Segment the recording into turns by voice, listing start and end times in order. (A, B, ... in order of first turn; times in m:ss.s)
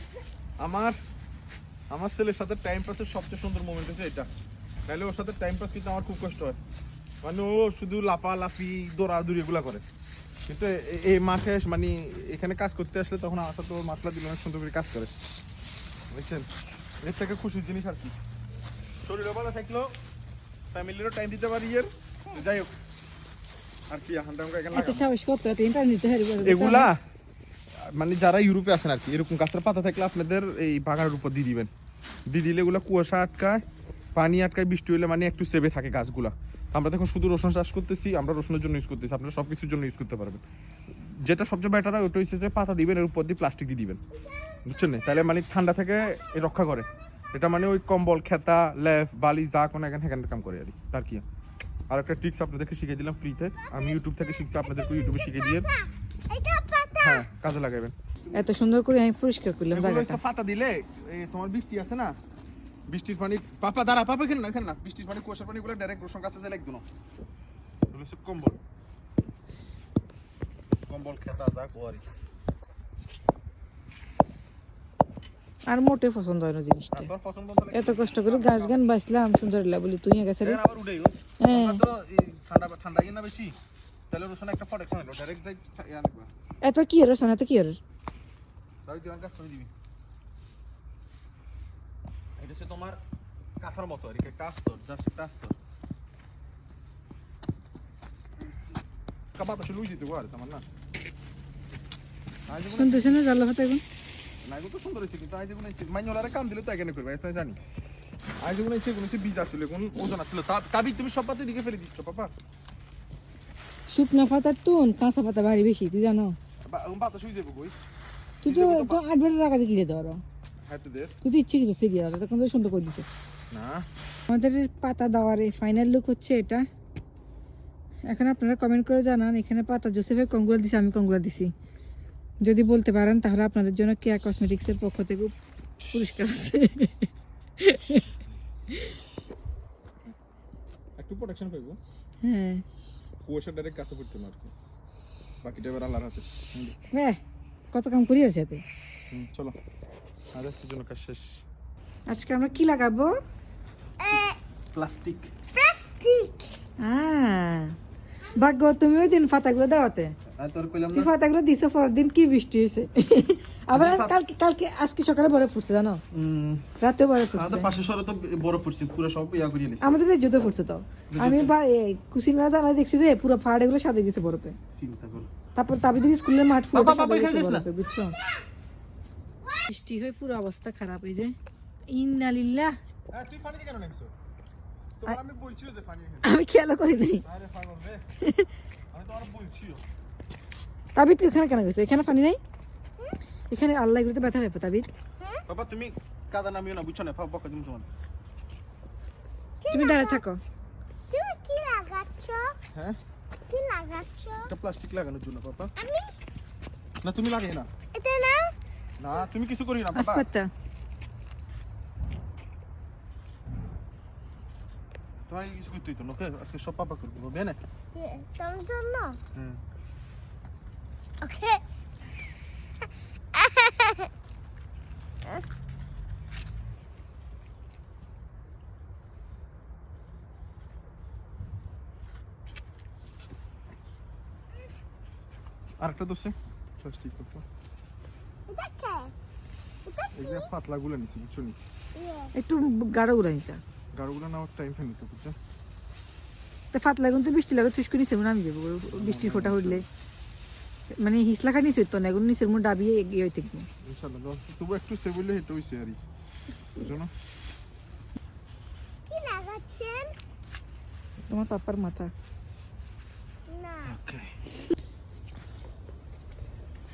0:00.6-0:01.0 A
0:01.9-0:04.3 A
0:04.9-0:06.6 A
0:07.2-0:09.8 A
0:10.5-0:15.1 A
0:16.1-0:16.5 A
0:17.0-0:18.1 A
0:19.0-0:19.9 A
0:20.7-0:22.7 A
0:23.9-0:25.1 A
0:24.7-0:26.9 B
0:26.4-0:27.0 A
0:27.9-0:31.7 A
0:32.3-0:33.6 A
0:34.2-0:40.4 A
0:41.0-0:44.0 A
0:44.7-0:51.2 A
0:51.9-0:55.7 A
0:56.3-0:57.1 C
0:57.0-0:57.9 A
0:58.3-1:00.2 B
0:59.7-1:02.1 A
1:02.9-1:06.8 A
1:07.9-1:08.6 A
1:10.9-1:12.0 A
1:15.7-1:17.1 B
1:16.9-1:18.9 A
1:17.7-1:20.6 B
1:20.4-1:23.6 A
1:21.4-1:21.8 B
1:24.1-1:26.3 A
1:26.6-1:27.8 B
1:28.9-1:29.7 A
1:32.4-1:33.0 A
1:33.6-1:35.6 A
1:39.4-1:40.6 A
1:42.5-1:43.2 A
1:42.7-1:43.8 B
1:44.4-1:47.6 A
1:48.4-1:52.3 A
1:53.9-1:56.4 B
1:56.7-1:57.8 A
1:58.4-2:00.2 B
1:58.4-1:59.0 A
2:00.6-2:01.2 A
2:01.2-2:03.1 B
2:03.5-2:03.8 A
2:04.3-2:06.6 B
2:08.1-2:11.5 B
2:12.5-2:15.3 B
2:15.9-2:17.1 B
2:17.6-2:18.0 B
2:21.0-2:21.8 A
2:22.2-2:22.6 B
2:23.2-2:24.5 A
2:25.4-2:26.8 A
2:26.9-2:27.2 B
2:27.7-2:28.6 B
2:29.1-2:29.6 A
2:30.3-2:31.4 A
2:32.1-2:33.2 B
2:34.0-2:34.3 C
2:34.7-2:35.3 A
2:35.6-2:36.3 C
2:36.8-2:37.8 B
2:38.3-2:40.2 B
2:40.3-2:41.1 A
2:40.9-2:46.0 B
2:43.7-2:44.2 A
2:46.1-2:46.7 A
2:46.8-2:47.7 B
2:47.3-2:50.0 A
2:49.8-2:54.6 B
2:51.1-2:51.6 A
2:54.7-2:55.3 A
2:55.6-2:58.2 B
2:56.7-2:57.7 A
2:59.7-3:01.4 B
3:01.9-3:02.8 B
3:03.1-3:04.1 A
3:05.0-3:06.4 A
3:06.2-3:07.2 B
3:07.2-3:08.0 A
3:08.2-3:08.5 B
3:08.9-3:09.8 A
3:11.0-3:12.4 B
3:13.5-3:14.9 B
3:15.5-3:17.9 A
3:19.6-3:20.2 C
3:19.7-3:20.4 B
3:21.1-3:22.5 C
3:22.7-3:23.0 A
3:23.5-3:24.5 C
3:24.5-3:25.7 A
3:25.8-3:26.1 C
3:27.0-3:27.7 A
3:28.0-3:28.5 C
3:29.0-3:30.3 A
3:30.0-3:30.5 B
3:35.3-3:37.6 A
3:38.0-3:39.2 C
3:39.3-3:39.6 A
3:41.2-3:41.6 C
3:43.4-3:44.1 C
3:55.8-3:57.4 A
3:58.5-3:59.1 C
3:59.9-4:00.5 C
4:00.1-4:01.6 A
4:02.0-4:02.3 C
4:02.4-4:03.6 B
4:04.0-4:05.4 A
4:06.7-4:09.8 B
4:08.9-4:09.8 A
4:11.0-4:13.7 B
4:13.8-4:16.0 A
4:16.8-4:17.1 A
4:19.1-4:20.1 C
4:21.3-4:22.1 B
4:23.5-4:24.0 C
4:23.8-4:24.4 A